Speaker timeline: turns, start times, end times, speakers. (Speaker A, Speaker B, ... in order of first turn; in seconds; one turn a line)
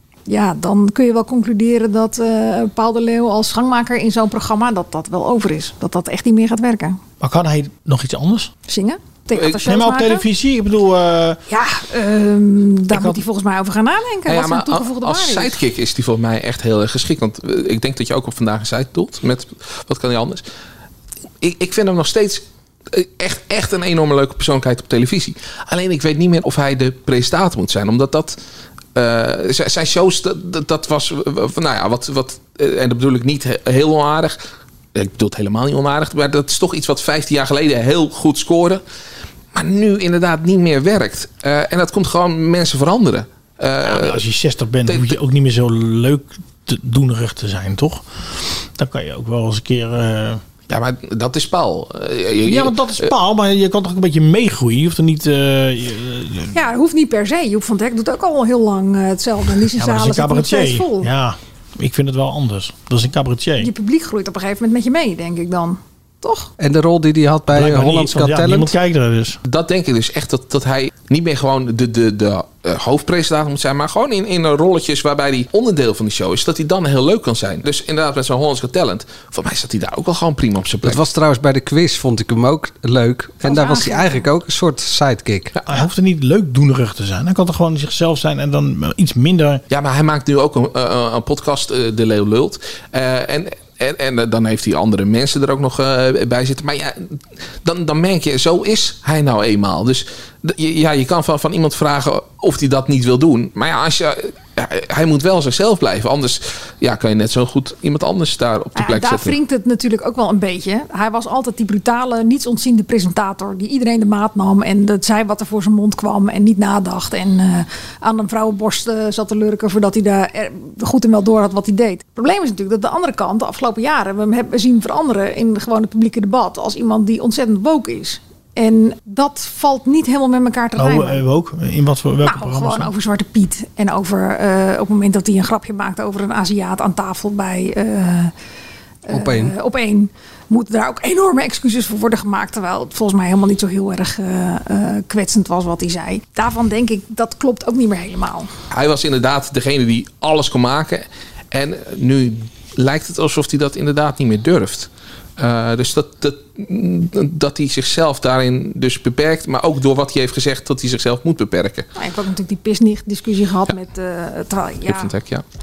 Speaker A: 0.3-7.0
Speaker B: 7.2-8.5
Speaker A: 8.7-10.2
Speaker B: 9.6-11.4
Speaker A: 11.5-15.6
Speaker B: 12.9-13.2
Speaker C: 14.3-20.4
Speaker C: 21.4-28.4
Speaker C: 28.9-34.4
Speaker C: 34.9-38.8
Speaker C: 39.5-44.2
Speaker B: 43.9-50.4
Speaker C: 44.9-45.2
Speaker C: 50.7-53.1
Speaker B: 52.5-56.5
Speaker A: 56.5-61.1
Speaker B: 59.7-63.7
Speaker A: 63.6-66.5
Speaker D: 66.6-68.7
Speaker B: 67.5-69.4
Speaker C: 69.5-81.0
Speaker D: 80.8-85.5
Speaker A: 83.4-84.2
Speaker C: 85.5-85.8
Speaker B: 85.7-89.6
Speaker C: 89.7-109.3
Speaker A: 108.8-131.2
Speaker B: 130.8-132.9
Speaker A: 132.2-138.3
Speaker A: 139.1-148.5
Speaker D: 139.1-139.5
Speaker C: 148.7-161.9
Speaker A: 161.9-165.1
Speaker C: 164.8-165.4